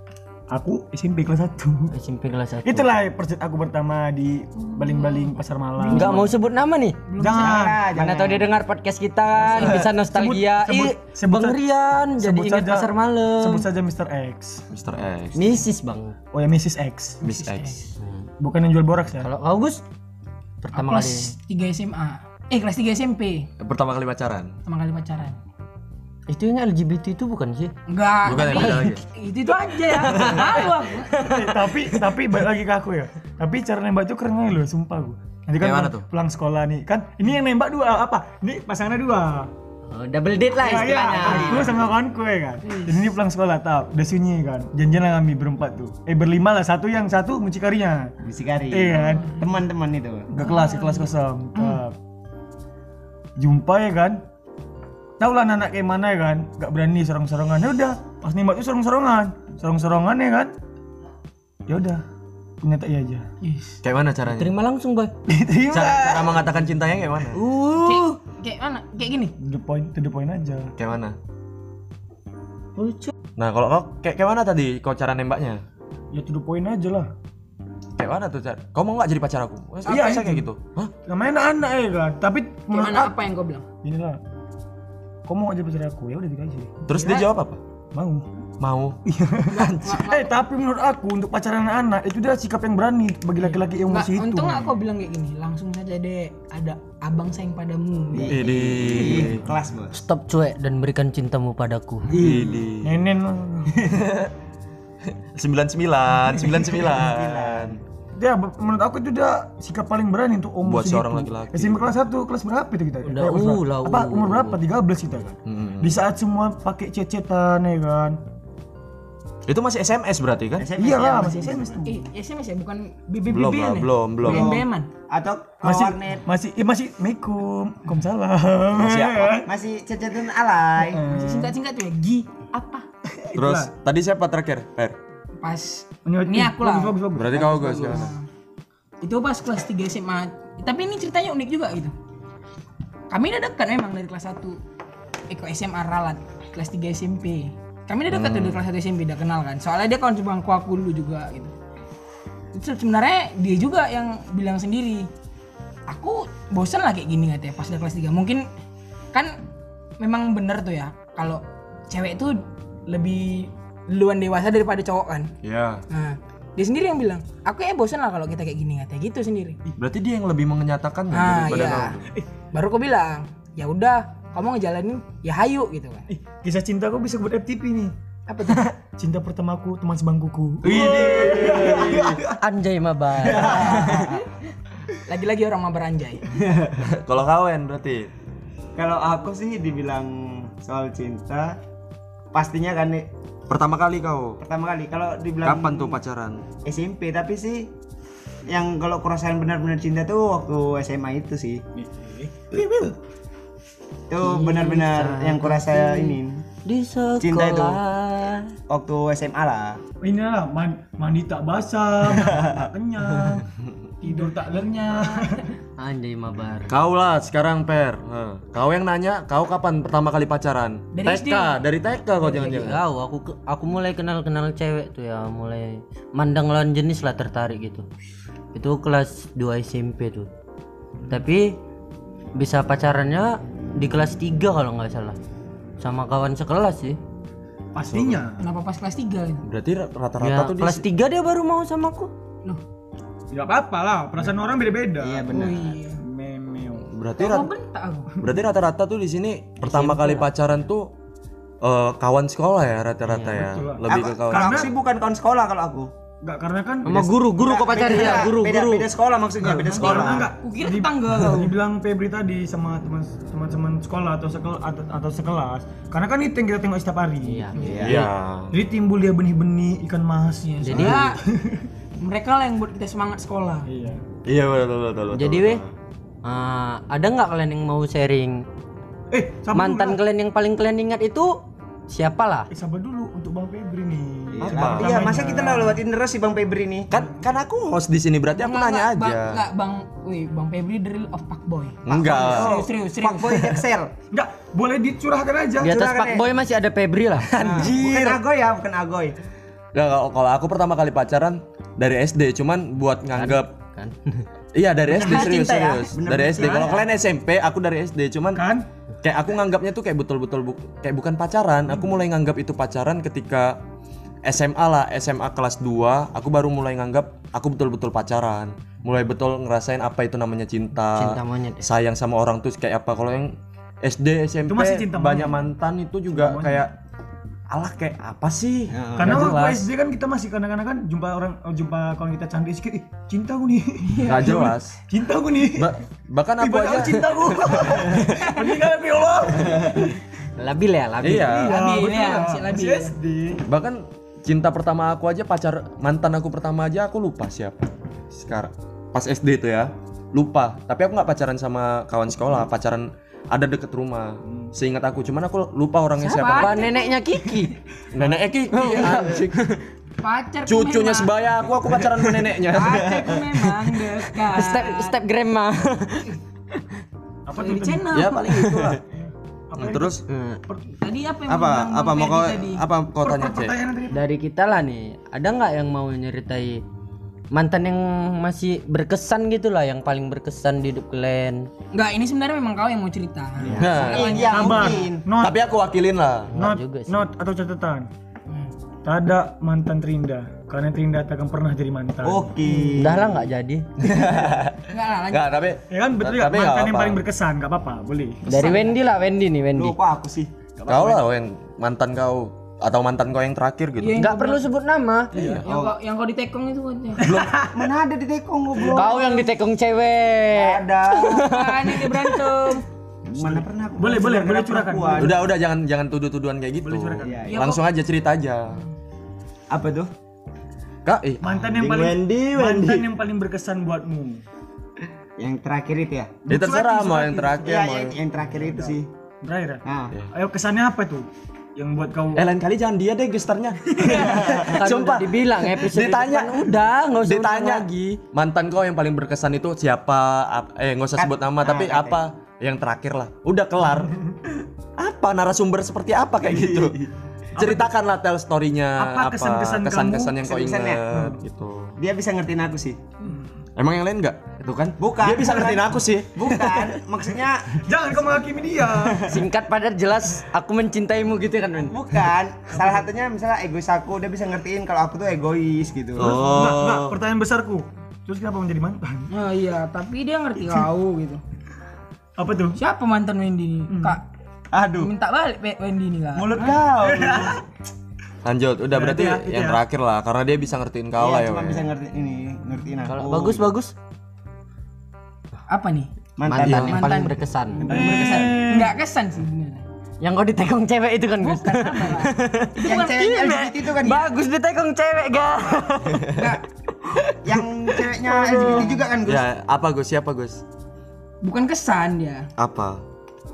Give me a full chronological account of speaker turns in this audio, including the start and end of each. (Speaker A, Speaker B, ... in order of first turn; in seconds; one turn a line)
Speaker A: 0.5-1.9
Speaker B: 1.9-2.9
Speaker A: 2.6-6.3
Speaker C: 4.7-6.3
Speaker B: 5.9-7.0
Speaker C: 7.1-7.6
Speaker A: 7.2-7.8
Speaker D: 7.3-8.5
Speaker B: 7.9-13.7
Speaker A: 9.4-11.6
Speaker C: 9.6-9.8
Speaker A: 12.2-14.6
Speaker E: 14.7-15.6
Speaker B: 15.3-16.1
Speaker A: 16.3-17.2
Speaker E: 17.2-17.8
Speaker C: 17.3-17.8
Speaker B: 18.0-18.3
Speaker A: 18.4-19.3
Speaker B: 19.2-19.8
Speaker B: 20.6-21.3
Speaker C: 20.7-23.5
Speaker E: 23.6-24.5
Speaker C: 24.6-25.4
Speaker B: 26.3-27.7
Speaker C: 27.9-31.1
Speaker E: 28.2-29.0
Speaker B: 28.3-28.8
Speaker E: 30.0-30.6
Speaker B: 30.2-31.6
Speaker A: 31.2-39.5
Speaker E: 35.6-36.0
Speaker B: 39.9-41.8
Speaker A: 40.6-48.1
Speaker D: 40.7-41.7
Speaker C: 42.6-43.0
Speaker D: 48.2-50.3
Speaker A: 48.7-49.4
Speaker C: 49.0-49.3
Speaker A: 50.3-52.0
Speaker C: 50.4-51.8
Speaker A: 53.4-54.2
Speaker A: 55.2-60.5
Speaker A: 61.7-62.0
Speaker A: 62.6-63.3
Speaker C: 63.4-63.8
Speaker E: 63.8-64.5
Speaker B: 64.2-65.1
Speaker A: 65.3-66.5
Speaker E: 65.7-67.4
Speaker B: 67.3-68.2
Speaker C: 67.8-69.3
Speaker A: 69.4-70.7
Speaker E: 70.8-71.2
Speaker B: 72.8-73.1
Speaker E: 73.4-75.6
Speaker A: 76.1-77.1
Speaker E: 78.0-80.9
Speaker A: 79.8-80.5
Speaker A: 81.0-83.1
Speaker C: 82.7-83.6
Speaker A: 83.8-84.2
Speaker A: 85.2-86.8
Speaker E: 86.8-87.6
Speaker C: 86.9-87.2
Speaker A: 87.9-88.2
Speaker E: 88.6-89.0
Speaker A: 89.0-94.8
Speaker C: 89.5-90.3
Speaker C: 93.4-98.6
Speaker D: 98.1-100.0
Speaker E: 98.3-99.5
Speaker B: 99.9-102.2
Speaker D: 102.1-102.7
Speaker E: 102.1-103.0
Speaker A: 102.2-103.9
Speaker E: 103.9-104.3
Speaker E: 105.1-107.8
Speaker D: 106.8-107.8
Speaker A: 108.2-118.2
Speaker E: 110.6-111.9
Speaker B: 113.0-114.6
Speaker E: 115.5-116.0
Speaker E: 119.5-120.7
Speaker D: 120.6-121.8
Speaker A: 120.8-122.1
Speaker C: 121.8-124.9
Speaker E: 123.3-124.5
Speaker D: 124.2-126.2
Speaker A: 125.6-129.5
Speaker E: 128.7-129.4
Speaker D: 129.4-131.0
Speaker A: 130.8-131.5
Speaker C: 131.1-132.8
Speaker A: 133.1-133.7
Speaker E: 133.3-134.9
Speaker C: 135.4-136.9
Speaker A: 136.0-138.1
Speaker E: 137.1-138.1
Speaker C: 137.8-138.2
Speaker C: 139.0-141.9
Speaker C: 143.1-144.6
Speaker C: 145.3-151.5
Speaker E: 148.1-148.6
Speaker C: 152.5-155.1
Speaker C: 155.9-158.4
Speaker C: 159.1-159.4
Speaker C: 160.0-165.3
Speaker E: 165.4-165.8
Speaker C: 165.9-169.6
Speaker E: 169.8-172.1
Speaker C: 171.1-172.0
Speaker C: 172.5-176.1
Speaker A: 176.1-177.9
Speaker C: 178.3-178.7
Speaker A: 178.5-182.3
Speaker E: 180.6-182.2
Speaker D: 180.7-182.2
Speaker B: 182.4-184.1
Speaker D: 183.2-184.2
Speaker C: 185.0-186.2
Speaker D: 186.3-186.8
Speaker E: 186.8-188.1
Speaker D: 188.8-191.6
Speaker D: 192.3-193.1
Speaker E: 193.5-194.4
Speaker D: 194.4-196.0
Speaker E: 195.4-196.4
Speaker D: 196.6-197.7
Speaker D: 198.5-201.6
Speaker A: 201.7-202.7
Speaker D: 204.1-206.4
Speaker B: 204.2-208.5
Speaker D: 207.2-207.8
Speaker D: 208.7-209.8
Speaker A: 210.0-213.5
Speaker D: 212.1-212.6
Speaker A: 214.0-215.5
Speaker C: 214.0-214.4
Speaker C: 214.9-215.4
Speaker B: 215.8-216.7
Speaker E: 216.7-222.8
Speaker C: 220.9-221.6
Speaker B: 222.2-227.8
Speaker B: 228.5-230.3
Speaker B: 231.1-231.6
Speaker B: 232.3-235.2
Speaker B: 235.8-237.0
Speaker A: 237.7-238.4
Speaker E: 237.9-238.2
Speaker C: 238.4-239.4
Speaker E: 239.4-240.8
Speaker B: 240.2-242.1
Speaker A: 243.3-245.3
Speaker D: 245.0-245.8
Speaker C: 245.3-246.0
Speaker A: 246.0-246.9
Speaker E: 246.9-247.5
Speaker C: 247.2-248.1
Speaker E: 248.2-250.9
Speaker B: 249.6-250.3
Speaker E: 251.6-254.7
Speaker B: 253.1-253.4
Speaker A: 253.3-254.7
Speaker D: 253.9-255.9
Speaker A: 256.2-257.1
Speaker B: 256.8-258.9
Speaker D: 257.4-260.3
Speaker A: 259.4-271.7
Speaker E: 259.8-260.1
Speaker C: 260.4-261.5
Speaker B: 267.2-267.6
Speaker C: 267.6-267.8
Speaker D: 267.6-268.1
Speaker E: 267.8-268.6
Speaker C: 270.4-271.2
Speaker B: 270.6-271.1
Speaker C: 272.0-273.7
Speaker A: 273.6-274.0
Speaker E: 274.2-275.7
Speaker B: 275.1-275.6
Speaker B: 276.2-278.4
Speaker A: 279.1-280.0
Speaker B: 279.5-282.5
Speaker A: 282.5-285.8
Speaker D: 284.4-286.9
Speaker E: 284.4-285.2
Speaker E: 286.9-289.4
Speaker C: 288.3-293.6
Speaker E: 291.8-292.6
Speaker D: 291.9-293.9
Speaker A: 294.1-295.8
Speaker B: 295.6-298.2
Speaker D: 295.6-296.3
Speaker D: 297.4-299.2
Speaker A: 297.4-297.9
Speaker E: 299.7-303.5
Speaker B: 303.1-304.2
Speaker E: 304.5-308.4
Speaker D: 304.9-306.9
Speaker A: 306.4-306.7
Speaker A: 308.3-308.7
Speaker E: 309.0-313.6
Speaker E: 314.2-326.8
Speaker B: 320.9-321.7
Speaker A: 324.4-325.5
Speaker A: 326.1-326.6
Speaker E: 327.5-329.6
Speaker D: 328.7-329.3
Speaker A: 329.0-335.8
Speaker C: 333.8-334.4
Speaker E: 334.0-334.8
Speaker E: 335.5-338.2
Speaker A: 336.4-340.0
Speaker B: 340.4-341.5
Speaker E: 341.0-341.6
Speaker C: 341.3-342.9
Speaker A: 341.3-343.4
Speaker E: 343.4-356.8
Speaker C: 356.0-357.4
Speaker B: 356.2-357.6
Speaker E: 357.9-359.6
Speaker B: 358.5-359.4
Speaker C: 360.0-361.1
Speaker E: 360.4-363.7
Speaker C: 362.5-365.0
Speaker B: 364.3-366.2
Speaker A: 367.2-368.0
Speaker C: 367.3-368.8
Speaker E: 367.9-368.8
Speaker A: 368.9-370.8
Speaker E: 369.6-370.0
Speaker B: 370.1-370.4
Speaker C: 370.8-372.6
Speaker E: 371.3-373.6
Speaker A: 373.0-374.0
Speaker B: 373.9-376.6
Speaker B: 377.3-381.5
Speaker C: 381.7-384.9
Speaker D: 383.4-385.1
Speaker E: 383.6-384.3
Speaker A: 384.3-385.4
Speaker E: 385.2-386.4
Speaker B: 386.3-387.1
Speaker A: 386.3-387.9
Speaker A: 388.8-392.4
Speaker D: 392.0-393.3
Speaker B: 392.7-393.9
Speaker E: 393.8-397.0
Speaker C: 394.7-395.5
Speaker A: 395.7-398.3
Speaker B: 398.2-399.8
Speaker C: 398.3-398.8
Speaker D: 399.5-400.8
Speaker A: 400.6-401.0
Speaker E: 400.7-404.0
Speaker C: 403.8-404.4
Speaker B: 403.9-405.1
Speaker A: 405.1-405.4
Speaker E: 405.1-405.4
Speaker C: 405.4-407.1
Speaker D: 405.4-405.8
Speaker E: 407.0-407.4
Speaker A: 407.0-407.7
Speaker D: 407.4-409.2
Speaker B: 408.7-412.5
Speaker D: 410.3-411.3
Speaker C: 411.1-412.6
Speaker D: 413.1-415.2
Speaker A: 413.2-415.2
Speaker E: 415.0-418.6
Speaker A: 416.6-417.2
Speaker D: 417.0-417.5
Speaker C: 417.3-417.6
Speaker D: 419.5-419.9
Speaker E: 420.8-422.8
Speaker A: 421.2-424.2
Speaker D: 421.5-421.9
Speaker D: 425.2-426.3
Speaker E: 426.3-428.0
Speaker A: 426.3-427.6
Speaker D: 427.4-428.9
Speaker A: 428.2-432.3
Speaker D: 429.6-429.9
Speaker E: 432.1-444.0
Speaker D: 434.0-434.4
Speaker B: 434.4-438.0
Speaker D: 441.0-442.0
Speaker E: 444.8-446.8
Speaker D: 446.2-446.8
Speaker A: 447.4-447.7
Speaker E: 447.4-451.8
Speaker A: 448.8-450.2
Speaker D: 450.2-450.8
Speaker A: 450.9-451.2
Speaker D: 451.8-452.8
Speaker E: 453.6-456.8
Speaker D: 454.8-459.2
Speaker A: 457.6-459.1
Speaker B: 459.0-461.8
Speaker D: 461.6-466.2
Speaker A: 462.5-462.8
Speaker E: 466.0-466.9
Speaker A: 466.0-469.1
Speaker C: 469.1-471.2
Speaker A: 472.2-472.6
Speaker C: 472.6-474.0
Speaker A: 473.7-474.0
Speaker D: 474.5-474.9
Speaker C: 474.8-476.5
Speaker D: 476.1-477.4
Speaker A: 476.8-477.4
Speaker E: 478.2-481.7
Speaker A: 478.7-479.6
Speaker D: 481.0-483.4
Speaker B: 482.9-483.7
Speaker C: 485.5-485.9
Speaker D: 486.2-486.8
Speaker B: 486.2-487.8
Speaker E: 486.4-486.8
Speaker C: 486.7-489.6
Speaker D: 487.6-488.4
Speaker A: 487.7-488.7
Speaker B: 490.0-496.2
Speaker C: 491.2-493.3
Speaker D: 492.6-494.1
Speaker C: 496.1-496.4
Speaker B: 496.9-497.1
Speaker D: 497.2-499.3
Speaker C: 498.2-498.8
Speaker E: 499.0-500.4
Speaker C: 501.2-502.3
Speaker E: 502.4-502.8